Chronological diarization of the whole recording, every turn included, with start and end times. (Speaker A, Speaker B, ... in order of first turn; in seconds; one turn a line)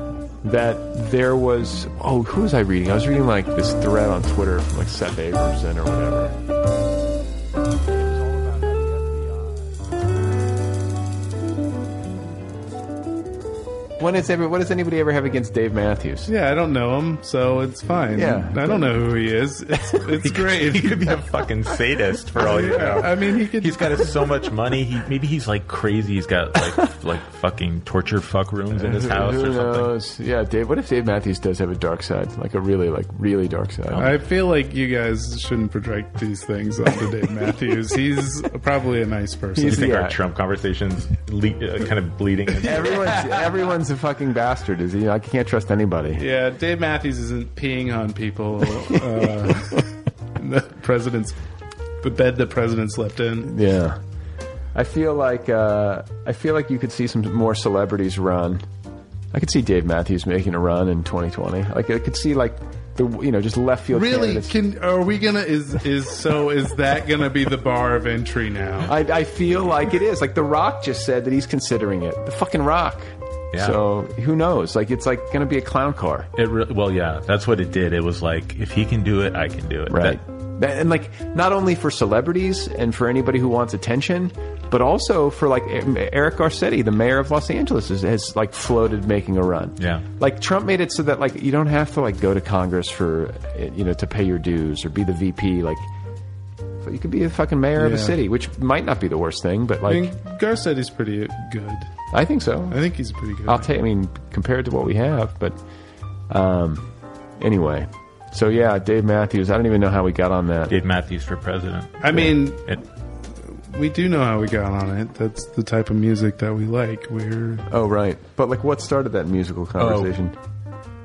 Speaker A: 0.4-6.3
Speaker A: 7.9-9.8
Speaker A: 14.0-16.3
Speaker B: 16.3-21.2
Speaker A: 18.1-18.8
Speaker C: 20.2-29.9
Speaker B: 22.4-24.1
Speaker A: 28.7-34.1
Speaker C: 33.9-34.1
Speaker B: 34.0-39.8
Speaker A: 39.5-40.2
Speaker C: 39.6-43.2
Speaker B: 42.6-43.6
Speaker A: 42.6-46.2
Speaker B: 46.1-51.4
Speaker A: 48.8-49.8
Speaker B: 52.0-53.5
Speaker A: 53.4-54.0
Speaker A: 54.7-58.6
Speaker A: 59.3-64.5
Speaker B: 63.9-68.9
Speaker A: 68.8-76.3
Speaker C: 73.5-73.8
Speaker C: 76.3-80.2
Speaker A: 79.9-95.8
Speaker C: 89.8-90.0
Speaker A: 96.8-100.1
Speaker B: 97.8-98.2
Speaker B: 99.9-101.9
Speaker A: 102.1-102.8
Speaker B: 102.7-103.7
Speaker A: 103.5-105.6
Speaker A: 106.3-106.8
Speaker A: 107.4-110.7
Speaker C: 110.7-112.8
Speaker B: 112.0-112.6
Speaker B: 113.5-117.6
Speaker A: 117.7-120.3
Speaker C: 119.8-120.1